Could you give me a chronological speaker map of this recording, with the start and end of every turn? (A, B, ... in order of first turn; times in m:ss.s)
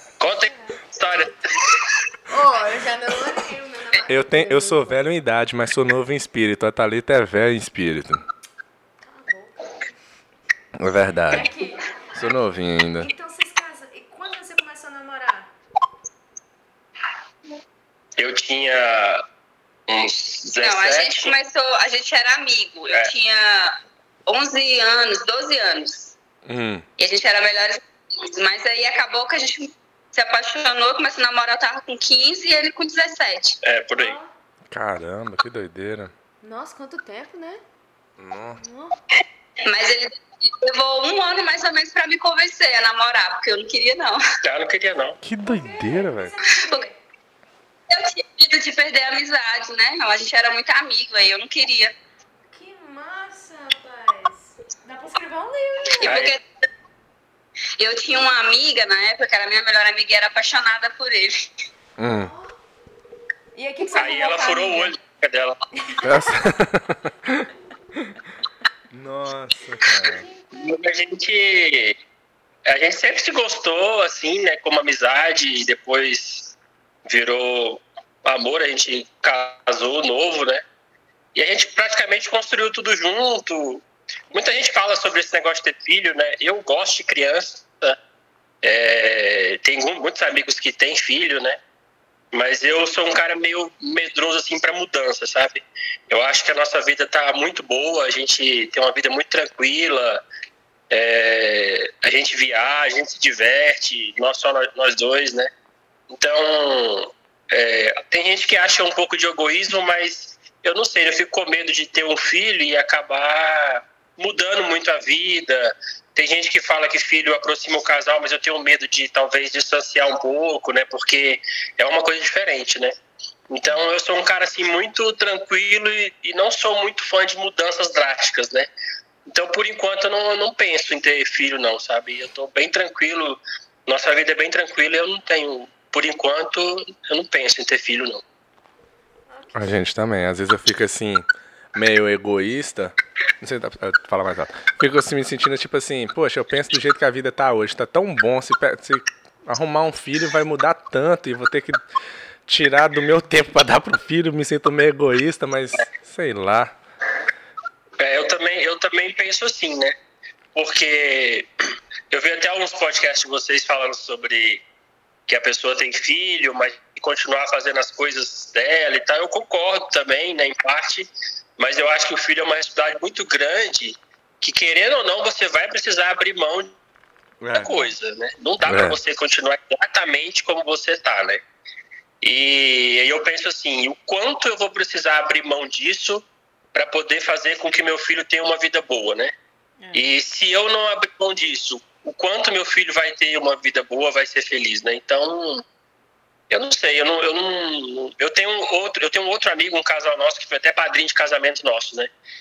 0:00.2-0:01.9 A
0:00.2-0:00.8 B
0:02.3-0:05.0 B
0:04.1-0:08.2 C
0:09.0-0:09.8 B
0:10.8-0:11.5 C
0:11.3-0:11.9 B
0:12.1-0:13.1 C
0:13.0-0:15.5 B
0:18.2-0:19.2 A
0:19.9-0:21.4 A
0:20.6-0:26.1 D
0:26.4-0:26.9 C
0:27.0-0:33.6 D
0:33.6-0:34.2 A
0:34.0-0:34.3 B
0:34.7-0:36.1 C
0:36.4-0:37.6 B
0:38.2-0:38.6 C
0:38.6-0:39.0 B
0:39.6-0:44.2 D
0:44.4-0:45.2 A
0:45.2-0:46.3 C
0:45.4-0:47.0 B
0:46.4-0:46.8 D
0:47.9-0:51.9 D
0:52.5-0:56.2 B
0:56.0-0:56.4 D
0:56.0-0:56.4 A
0:57.8-1:01.5 D
1:02.0-1:02.3 C
1:02.2-1:02.6 B
1:03.6-1:04.9 B
1:03.9-1:05.6 A
1:05.8-1:06.2 B
1:06.0-1:08.1 C
1:08.9-1:10.2 C
1:10.0-1:10.5 B
1:10.5-1:12.0 A
1:12.7-1:16.5 A
1:17.1-1:20.6 A
1:21.4-1:28.0 A
1:28.6-1:31.6 A
1:32.3-1:40.2 A
1:40.9-1:45.5 A
1:46.1-2:02.9 A
2:03.5-2:08.7 A
2:09.3-2:18.2 A
2:19.3-2:19.7 B
2:19.6-2:31.8 C
2:32.5-2:36.7 C
2:38.0-2:39.9 A
2:40.6-2:41.5 A
2:42.1-2:44.6 A
2:45.3-2:56.8 A
2:57.4-2:57.7 C
2:57.5-3:01.4 A
2:58.7-2:59.0 C
3:02.2-3:09.3 A
3:09.8-3:10.1 B
3:09.9-3:15.6 A
3:16.5-3:22.1 A